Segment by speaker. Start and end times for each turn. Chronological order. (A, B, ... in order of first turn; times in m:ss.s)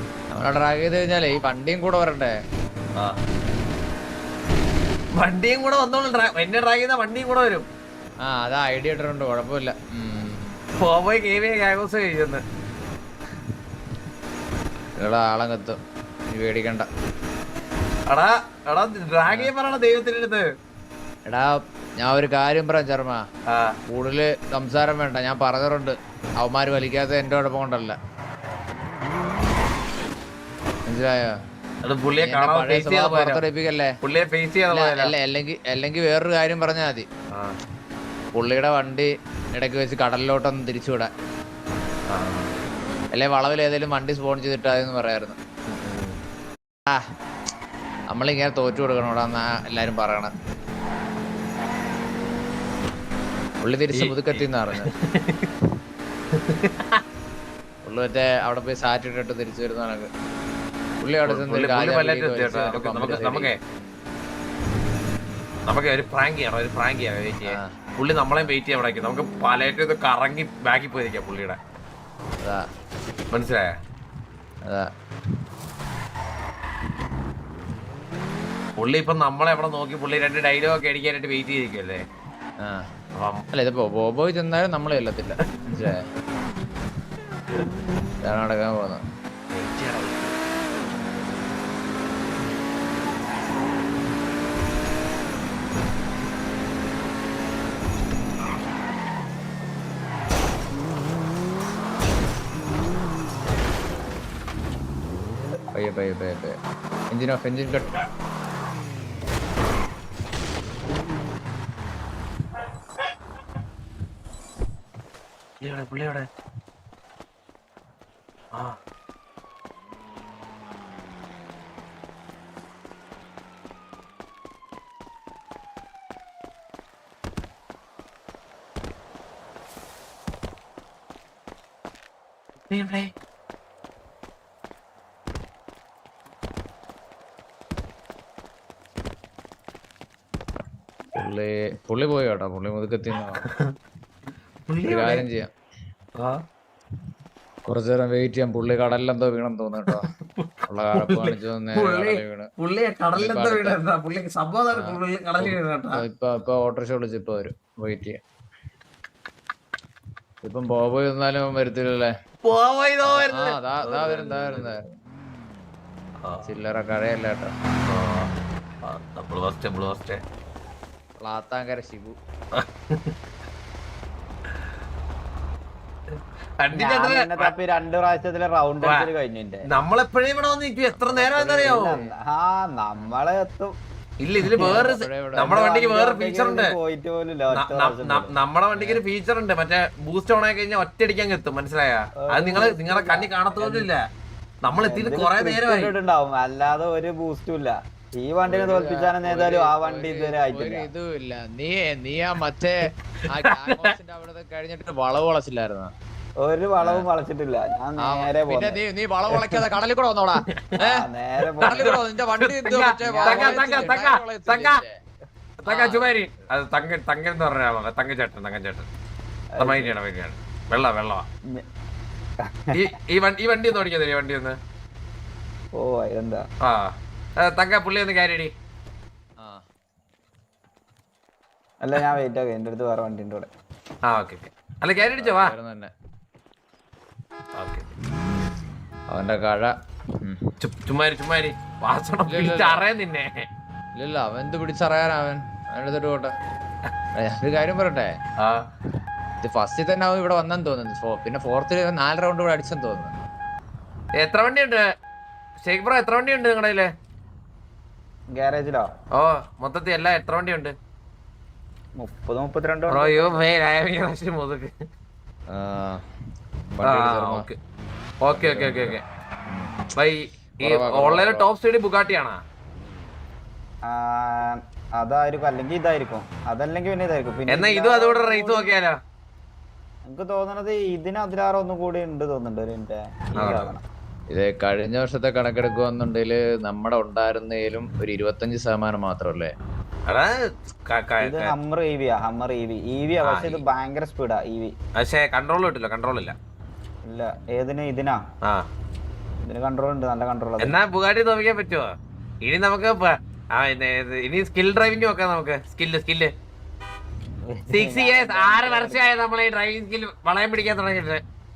0:00.3-0:02.3 A
0:05.2-0:07.6 B
0:08.3-0:10.6 A
0:10.8-0:12.4 B
0:15.0-0:15.8 A
0:16.3-0:16.9 A
0:18.1-0:20.5 B
0:21.3-0:23.2 A
0:23.5-0:23.8 B
0:23.9-0:28.0 A
0:30.9-0:31.3 A
0:31.8-0:33.4 B
0:32.2-0:33.9 A
0:34.0-0:35.1 B
0:34.7-0:37.1 A
0:38.4-0:41.1 A
0:42.1-0:42.5 B
0:43.1-0:45.4 A
0:45.7-0:46.2 B
0:48.1-0:50.3 A
0:53.6-0:54.9 A
0:53.9-0:55.5 B
0:56.3-0:57.0 B
0:57.8-1:00.1 A
1:01.0-1:04.0 A
1:01.2-1:03.6 B
1:05.7-1:11.6 B
1:13.3-1:13.7 B
1:18.8-1:22.0 B
1:23.1-1:23.4 B
1:23.5-1:26.0 A
1:28.2-1:29.0 A
1:29.5-1:30.4 B
1:45.7-1:46.6 A
1:47.1-1:48.0 A
1:55.6-1:56.3 B
2:12.7-2:13.1 B
2:21.2-2:23.4 A
2:24.7-2:25.3 B
2:24.8-2:25.5 A
2:27.7-2:30.0 A
2:29.9-2:36.0 B
2:30.7-2:32.5 A
2:33.2-2:33.8 A
2:34.7-2:38.2 A
2:40.4-2:42.1 A
2:42.4-2:44.7 B
2:43.1-2:44.9 A
2:46.2-2:46.5 B
2:46.4-2:47.5 A
2:47.9-2:48.3 B
2:48.8-2:50.2 B
2:51.2-2:52.2 A
2:52.5-2:53.1 B
2:56.1-2:57.5 B
2:56.7-2:59.6 C
2:58.8-2:59.1 B
2:59.7-3:01.9 B
3:01.0-3:01.3 A
3:01.2-3:03.7 C
3:04.2-3:06.7 B
3:04.5-3:05.5 A
3:04.6-3:08.3 C
3:07.5-3:14.0 B
3:08.7-3:09.0 A
3:12.2-3:13.9 C
3:14.6-3:15.9 B
3:14.7-3:20.9 C
3:18.4-3:22.8 A
3:23.3-3:25.9 A
3:23.4-3:23.9 B
3:26.4-3:29.7 C
3:26.8-3:27.1 A
3:28.0-3:31.0 A
3:30.8-3:32.0 C
3:31.6-3:34.8 B
3:31.6-3:35.0 A
3:35.6-3:38.9 B
3:35.6-3:36.2 A
3:39.5-3:40.0 C
3:39.6-3:41.2 B
3:42.5-3:42.9 C
3:42.7-3:44.6 B
3:45.8-3:46.4 C
3:46.6-3:46.9 B
3:47.4-3:48.5 B
3:51.8-3:53.5 C
3:54.1-3:55.5 B
3:55.1-3:55.9 A
3:57.6-3:57.9 B
3:59.1-3:59.7 A
4:00.2-4:00.5 A
4:00.6-4:03.4 B
4:02.3-4:02.8 A
4:04.0-4:06.3 A
4:07.2-4:08.1 A
4:09.4-4:13.1 A
4:14.2-4:14.8 B
4:15.6-4:16.9 B
4:18.3-4:18.8 C
4:19.2-4:20.7 B
4:22.0-4:23.4 C
4:22.9-4:24.7 B
4:25.5-4:26.0 A
4:26.7-4:27.5 A
4:26.8-4:27.6 B
4:28.2-4:29.0 B
4:28.3-4:29.7 A
4:30.0-4:32.4 B
4:30.6-4:31.5 A
4:33.9-4:38.7 C
4:37.5-4:39.0 B
4:40.0-4:43.8 C
4:43.4-4:43.7 B
4:44.3-4:49.5 A
4:50.1-4:51.5 B
4:51.2-4:54.7 C
4:53.2-4:53.6 B
4:55.0-4:56.3 B
4:57.0-4:58.2 C
4:59.4-5:00.7 C
5:00.6-5:01.9 B
5:02.4-5:06.3 B
5:07.5-5:09.0 C
5:07.7-5:11.2 B